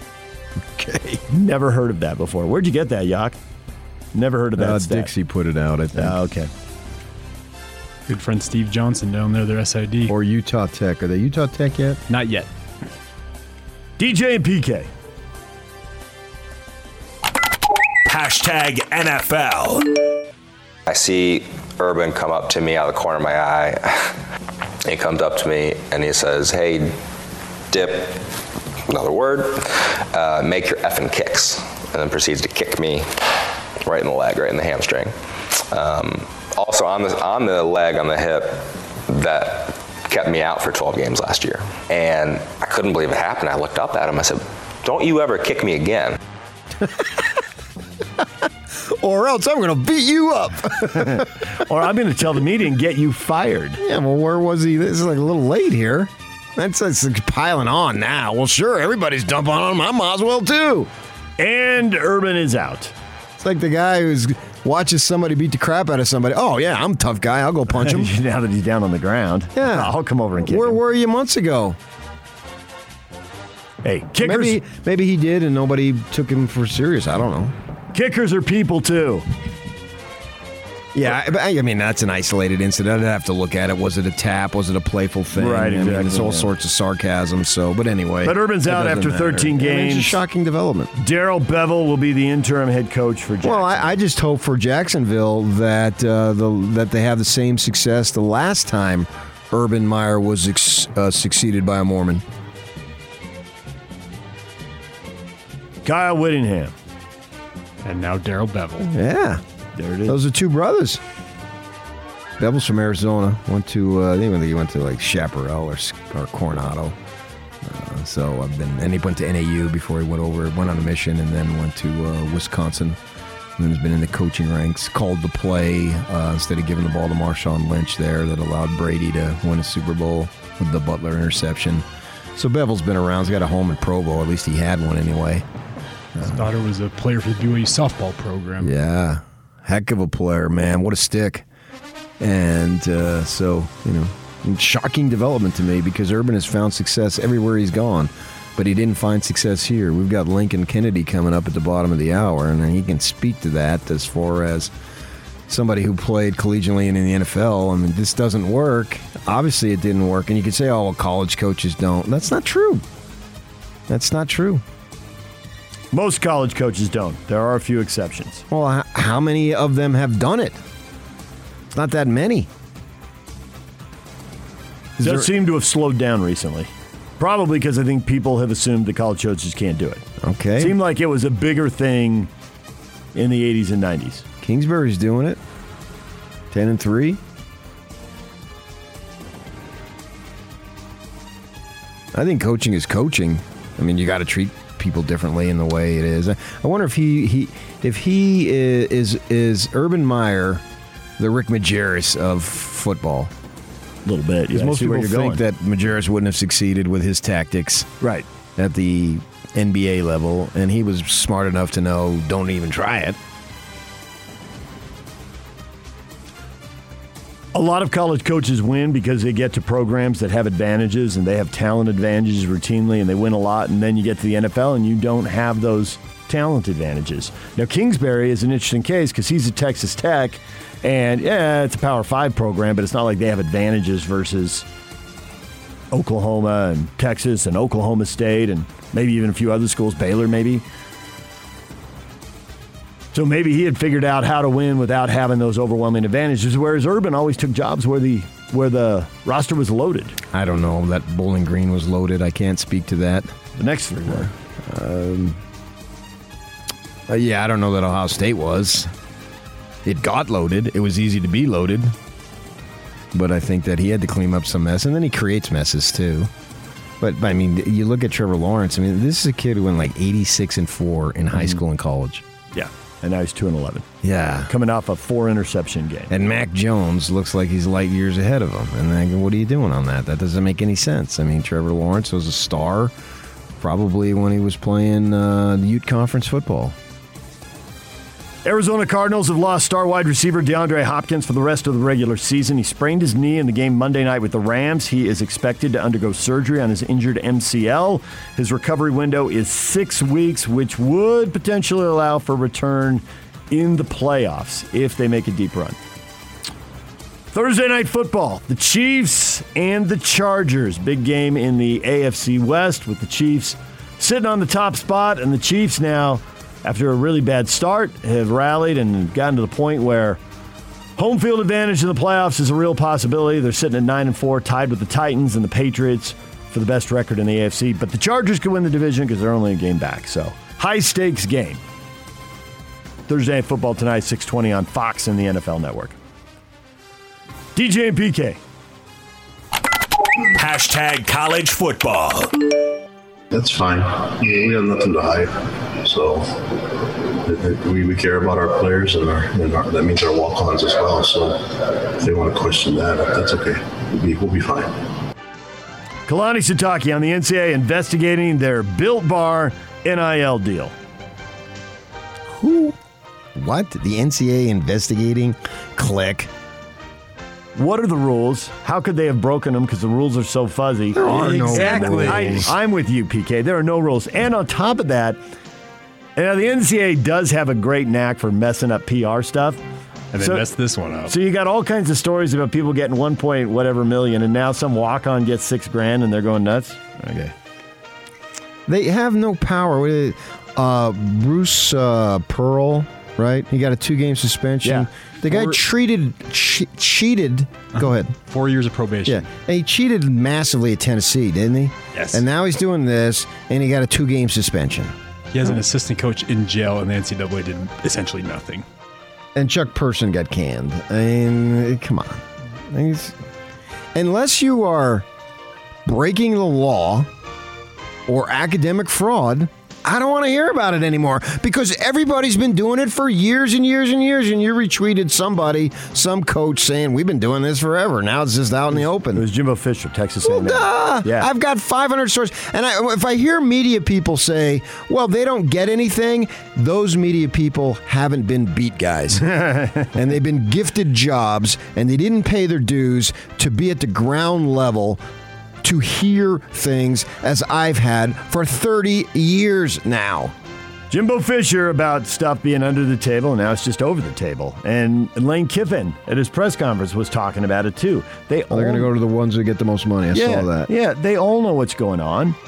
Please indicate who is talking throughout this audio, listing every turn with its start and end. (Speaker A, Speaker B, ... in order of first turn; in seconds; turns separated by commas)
Speaker A: 0.6-1.2, Speaker B: 1.3-3.4, Speaker B: 4.1-5.1, Speaker A: 4.5-6.2, Speaker B: 5.9-6.5, Speaker C: 8.1-10.1, Speaker A: 10.1-12.0, Speaker C: 12.1-12.5, Speaker B: 14.0-14.9, Speaker D: 18.1-20.0, Speaker E: 20.9-24.1, Speaker E: 24.8-26.9, Speaker E: 27.7-28.3, Speaker E: 28.9-33.1, Speaker E: 33.8-46.2, Speaker A: 46.8-47.2, Speaker A: 48.7-51.3, Speaker B: 50.9-53.8, Speaker A: 53.8-60.9, Speaker B: 61.4-62.9, Speaker A: 63.4-68.1, Speaker B: 67.7-70.8, Speaker A: 69.5-71.8, Speaker B: 73.8-74.6, Speaker A: 74.2-77.5, Speaker B: 77.9-79.2, Speaker A: 80.9-90.9, Speaker B: 85.3-86.5, Speaker B: 88.2-90.2, Speaker B: 91.0-93.9, Speaker A: 93.4-102.2, Speaker B: 105.8-106.7, Speaker C: 107.8-108.9, Speaker A: 108.8-109.4, Speaker B: 109.8-110.2, Speaker A: 110.1-111.0, Speaker A: 112.4-117.0, Speaker A: 117.6-123.0, Speaker A: 123.6-131.8, Speaker A: 132.3-135.4, Speaker A: 136.2-136.5, Speaker C: 136.2-138.7, Speaker A: 138.6-141.4, Speaker A: 142.2-154.7, Speaker A: 155.5-162.8, Speaker A: 163.9-164.6, Speaker B: 165.9-168.4, Speaker A: 168.5-170.6, Speaker A: 171.7-172.5, Speaker A: 175.0-175.3, Speaker B: 175.0-180.0, Speaker A: 180.2-180.8, Speaker B: 180.6-182.3, Speaker B: 183.1-184.2, Speaker A: 184.4-185.4, Speaker A: 186.5-187.2, Speaker A: 192.1-200.6, Speaker A: 201.2-203.3, Speaker B: 204.1-205.4, Speaker A: 204.5-207.9, Speaker A: 208.6-213.2, Speaker B: 217.5-234.7, Speaker B: 235.9-240.6, Speaker B: 243.1-250.2, Speaker A: 250.3-253.4, Speaker B: 253.6-254.3, Speaker A: 254.1-255.4, Speaker A: 257.1-258.9, Speaker A: 259.8-261.9, Speaker A: 263.1-266.3, Speaker A: 267.0-272.2, Speaker B: 272.5-273.9, Speaker A: 274.0-274.5, Speaker B: 274.5-276.1, Speaker A: 276.1-282.9, Speaker A: 283.6-286.7, Speaker B: 288.4-305.8, Speaker B: 307.3-320.2, Speaker B: 321.0-331.6, Speaker B: 333.1-335.9, Speaker B: 337.5-338.4, Speaker D: 340.3-342.3, Speaker F: 343.3-354.9, Speaker B: 356.1-360.7, Speaker A: 362.3-362.8, Speaker A: 363.4-366.3, Speaker B: 367.6-375.2, Speaker A: 370.9-372.5, Speaker C: 371.1-372.5, Speaker B: 376.1-379.6, Speaker C: 380.1-381.1, Speaker B: 380.2-380.5, Speaker B: 381.1-387.3, Speaker A: 388.7-398.1, Speaker C: 395.2-395.6, Speaker C: 397.7-399.3, Speaker A: 399.1-404.9, Speaker C: 401.9-402.2, Speaker C: 405.3-408.6, Speaker A: 409.3-413.1, Speaker A: 413.9-415.1, Speaker A: 415.9-417.1, Speaker A: 418.1-429.2, Speaker B: 429.1-431.3, Speaker A: 430.2-439.3, Speaker B: 439.2-439.9, Speaker A: 439.9-445.0, Speaker A: 445.6-450.3, Speaker B: 450.9-458.9, Speaker A: 458.5-460.7, Speaker B: 460.1-462.4